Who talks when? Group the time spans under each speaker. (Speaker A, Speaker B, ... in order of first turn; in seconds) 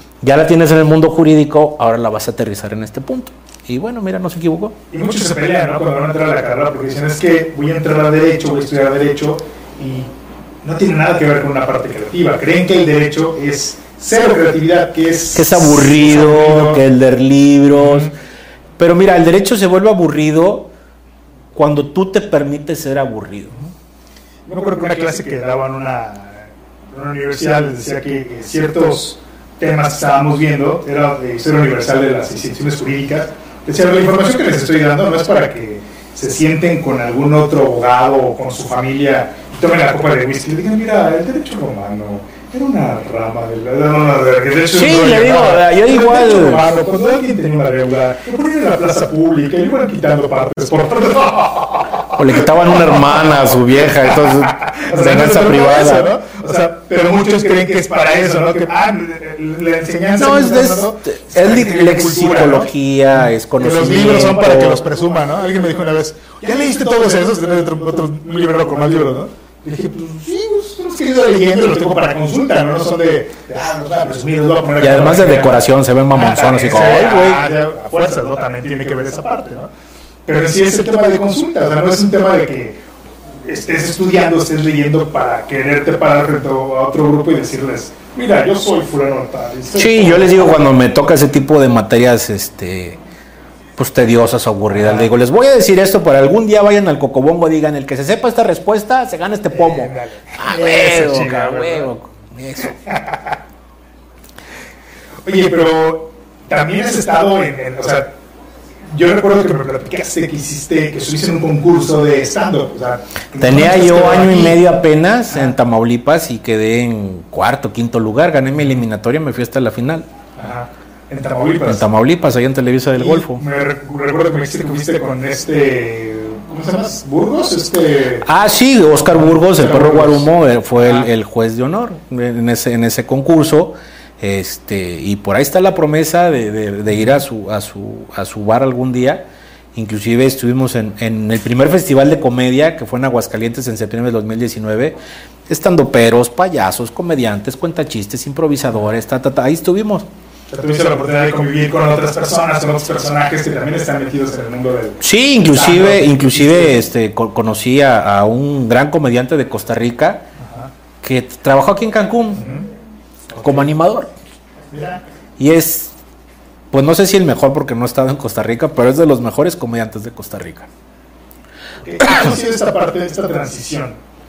Speaker A: 0.2-4.8, 15.3-18.1, 18.8-20.7, 21.5-23.6, 44.7-46.7, 52.1-56.1, 60.2-64.8, 74.8-77.5, 89.7-93.0, 93.8-102.8, 113.4-120.1, 121.7-123.4, 128.2-145.0, 145.5-150.1, 155.0-160.3, 161.0-162.4, 163.4-164.1, 165.4-165.9, 166.7-170.7
Speaker B: 4.9-10.1, 10.6-16.8, 17.7-18.1, 24.5-79.7, 80.3-82.8, 83.4-90.7, 94.7-95.1, 99.5-101.9, 102.8-103.3, 105.2-108.1, 108.9-114.7, 120.4-121.9, 123.0-128.3, 129.1-131.1, 150.5-156.8, 160.4-160.7, 162.4-162.7, 163.3-163.7, 164.7-165.0, 171.8-174.0